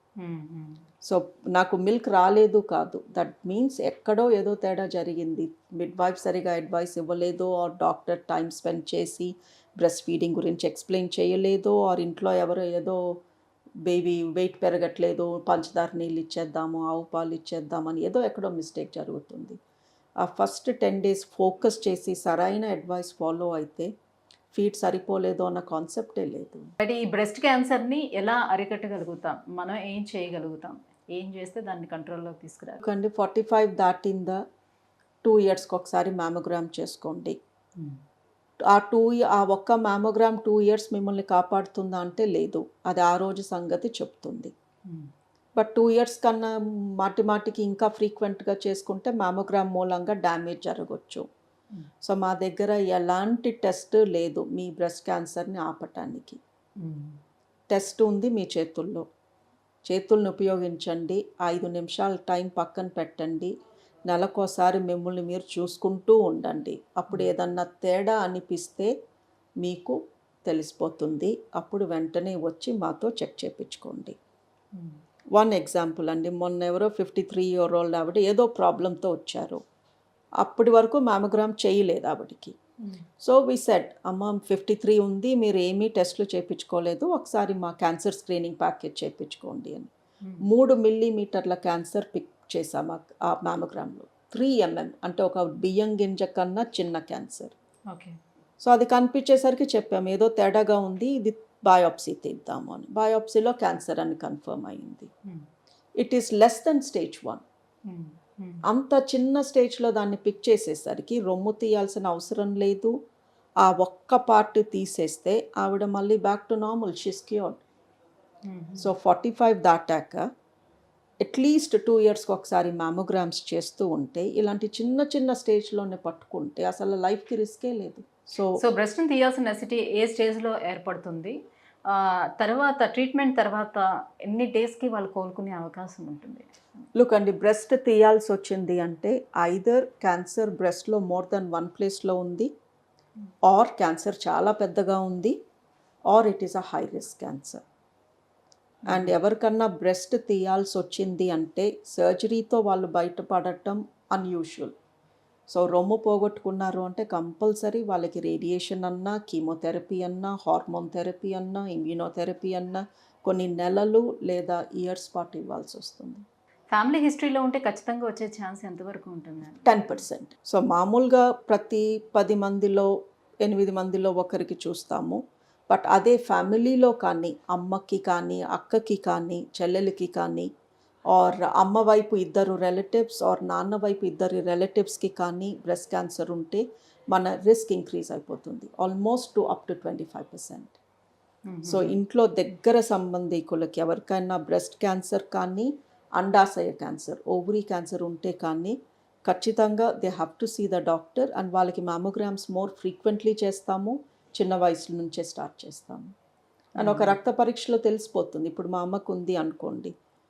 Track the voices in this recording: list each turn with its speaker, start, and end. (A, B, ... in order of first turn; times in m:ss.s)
0:00.2-0:00.8 A
0:01.0-0:13.1 B
0:13.8-0:19.6 B
0:20.2-0:23.9 B
0:24.5-0:26.7 B
0:26.8-0:32.8 A
0:32.8-0:34.4 B
0:35.2-0:37.4 B
0:38.7-0:44.5 B
0:45.6-0:51.2 B
0:52.0-0:56.4 B
0:56.8-0:57.2 A
0:57.7-0:59.0 B
0:59.8-1:03.5 B
1:04.1-1:08.9 B
1:09.6-1:14.2 B
1:15.3-1:19.6 B
1:20.4-1:22.6 B
1:23.2-1:29.9 B
1:30.2-1:30.5 A
1:30.4-1:37.5 B
1:37.9-1:38.2 A
1:38.6-1:45.1 B
1:46.0-1:47.4 B
1:47.9-1:48.6 A
1:48.6-1:52.9 B
1:53.6-1:57.6 B
1:58.4-1:58.9 A
1:58.8-2:00.2 B
2:01.2-2:08.6 B
2:08.6-2:11.3 A
2:11.9-2:16.5 A
2:16.9-2:22.5 B
2:23.5-2:25.4 B
2:26.1-2:27.6 B
2:28.8-2:29.2 A
2:28.9-2:34.7 B
2:35.5-2:46.2 B
2:46.7-2:49.8 A
2:49.6-2:52.9 B
2:53.4-3:00.5 B
3:01.1-3:10.8 B
3:11.5-3:12.0 A
3:11.6-3:26.1 B
3:26.8-3:29.9 B
3:26.8-3:27.2 A